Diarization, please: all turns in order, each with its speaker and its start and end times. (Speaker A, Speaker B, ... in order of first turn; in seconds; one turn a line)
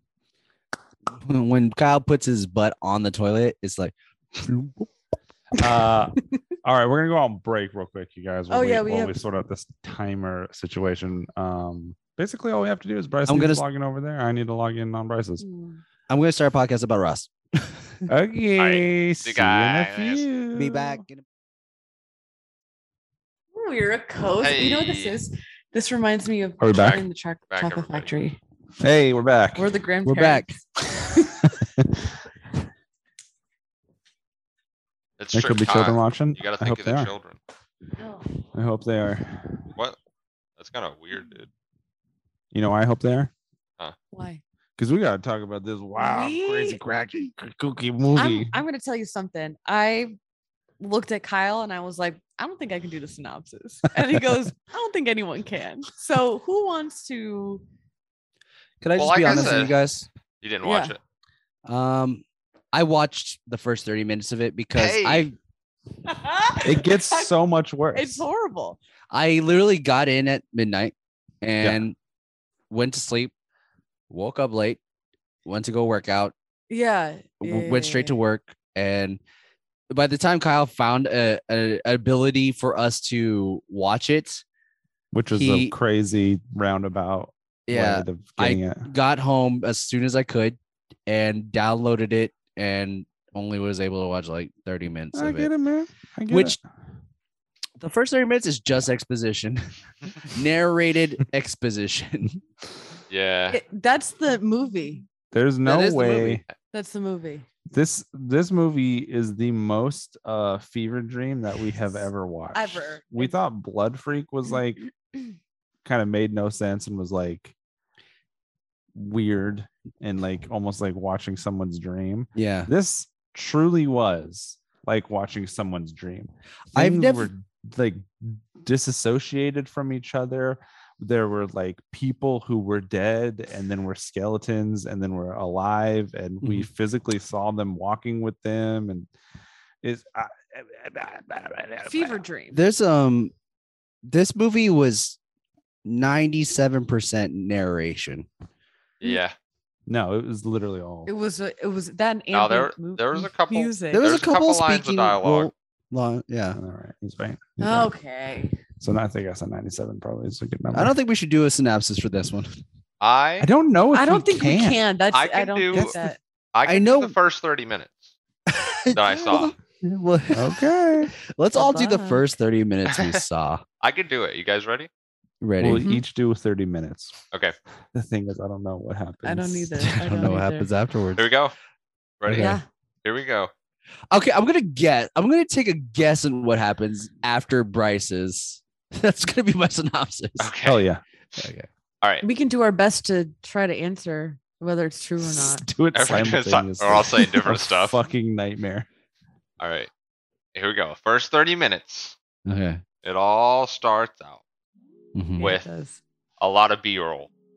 Speaker A: 1.1-4.9
Speaker B: 5.5-15.4
Speaker C: 8.5-9.2
Speaker A: 13.2-13.6
Speaker C: 15.4-15.8
Speaker A: 16.1-18.1
Speaker B: 18.1-21.0
Speaker D: 18.6-20.3
Speaker A: 20.5-21.2
Speaker C: 23.5-28.4
Speaker D: 24.4-25.2
Speaker B: 26.6-27.0
Speaker D: 26.7-28.1
Speaker B: 28.8-29.7
Speaker C: 29.5-30.6
Speaker A: 30.0-30.6
Speaker B: 31.1-31.9
Speaker D: 35.2-37.4
Speaker B: 35.3-37.1
Speaker C: 38.0-38.3
Speaker B: 38.5-39.6
Speaker D: 40.6-41.5
Speaker B: 42.5-43.3
Speaker C: 44.1-44.4
Speaker B: 44.8-48.6
Speaker C: 46.0-46.8
Speaker C: 48.1-50.1
Speaker C: 50.8-57.6
Speaker A: 58.8-60.1
Speaker D: 59.0-59.8
Speaker C: 59.3-59.6
Speaker D: 60.4-61.0
Speaker C: 60.6-61.0
Speaker A: 61.6-65.3
Speaker D: 64.7-65.3
Speaker C: 66.0-67.3
Speaker B: 66.6-68.2
Speaker C: 67.9-68.8
Speaker A: 69.1-72.0
Speaker A: 72.7-73.3
Speaker A: 74.1-74.8
Speaker A: 75.4-76.3
Speaker C: 76.7-78.2
Speaker A: 77.4-79.2
Speaker A: 79.9-84.4
Speaker B: 85.1-88.9
Speaker A: 85.3-85.7
Speaker A: 87.7-95.5
Speaker B: 95.1-96.6
Speaker A: 96.3-96.6
Speaker A: 97.8-99.7
Speaker A: 100.2-102.4
Speaker D: 103.1-103.6
Speaker C: 103.5-105.0
Speaker B: 105.3-106.4
Speaker A: 105.6-106.4
Speaker C: 106.7-107.5
Speaker B: 107.7-114.9
Speaker C: 112.5-113.3
Speaker B: 115.8-117.5
Speaker B: 118.9-139.1
Speaker A: 122.3-122.7
Speaker A: 126.7-127.3
Speaker A: 136.4-136.7
Speaker B: 139.8-142.2
Speaker C: 141.8-142.6
Speaker A: 142.5-143.3
Speaker A: 144.1-145.2
Speaker A: 145.8-148.3
Speaker D: 149.0-149.3
Speaker B: 149.9-151.1
Speaker C: 151.1-154.0
Speaker D: 152.3-155.5
Speaker A: 153.9-156.6
Speaker B: 156.5-157.9
Speaker C: 157.6-158.6
Speaker B: 158.8-160.9
Speaker A: 160.7-162.6
Speaker D: 163.0-163.5
Speaker B: 163.4-164.8
Speaker C: 163.9-166.2
Speaker D: 165.1-166.0
Speaker D: 166.5-168.1
Speaker A: 166.6-167.2
Speaker A: 168.5-173.6
Speaker D: 168.9-169.5
Speaker B: 170.3-171.1
Speaker C: 171.5-172.2
Speaker D: 172.9-173.2
Speaker D: 173.8-174.9
Speaker A: 175.4-175.9
Speaker B: 175.6-177.2
Speaker C: 175.7-176.0
Speaker B: 177.9-179.8
Speaker C: 179.2-180.7
Speaker A: 179.8-181.3
Speaker D: 181.2-181.5
Speaker D: 182.2-183.5
Speaker A: 182.3-182.6
Speaker C: 182.4-182.7
Speaker A: 184.1-190.5
Speaker D: 190.4-190.9
Speaker B: 190.6-191.0
Speaker A: 191.4-191.7
Speaker C: 192.2-195.6
Speaker B: 195.2-198.9
Speaker D: 195.9-198.0
Speaker D: 199.6-199.9
Speaker D: 200.5-202.2
Speaker A: 202.4-202.8
Speaker D: 203.0-204.4
Speaker A: 205.1-205.5
Speaker C: 205.4-206.0
Speaker D: 205.4-205.7
Speaker D: 206.4-207.3